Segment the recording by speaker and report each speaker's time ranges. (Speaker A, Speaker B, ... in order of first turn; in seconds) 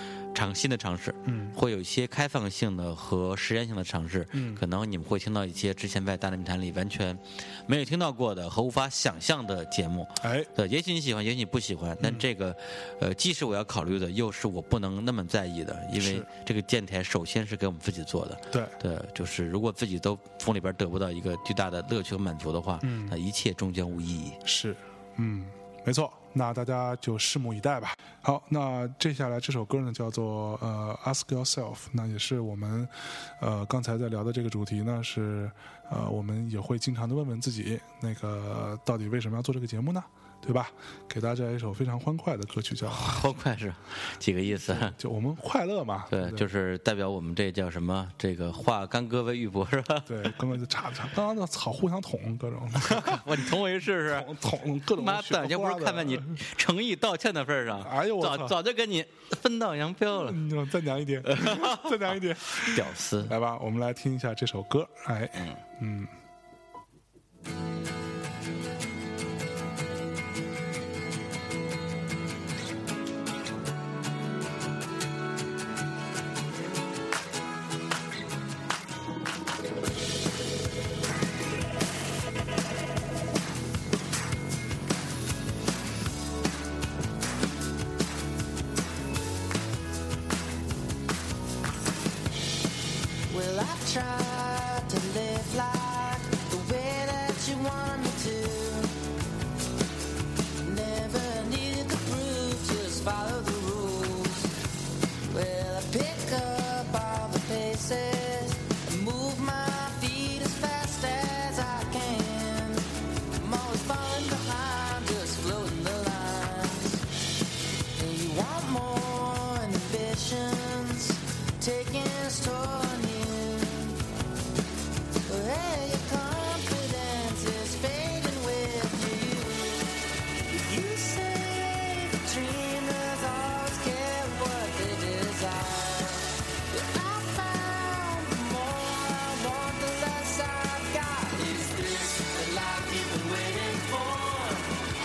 Speaker A: 0.3-24.4, 42.9-45.0, 46.1-50.4, 52.8-54.3, 54.9-60.4, 61.3-63.3
Speaker B: 1.3-1.6, 4.3-4.6, 10.2-10.5, 16.0-16.3, 22.8-23.2, 24.4-43.2, 44.6-46.5, 50.1-56.4, 57.8-58.6, 60.2-66.1
Speaker C: 93.3-94.1, 96.6-98.5, 100.7-103.3, 105.3-108.1, 108.9-112.8, 113.4-116.9, 118.0-124.0, 125.3-129.9, 130.5-135.7, 136.7-141.8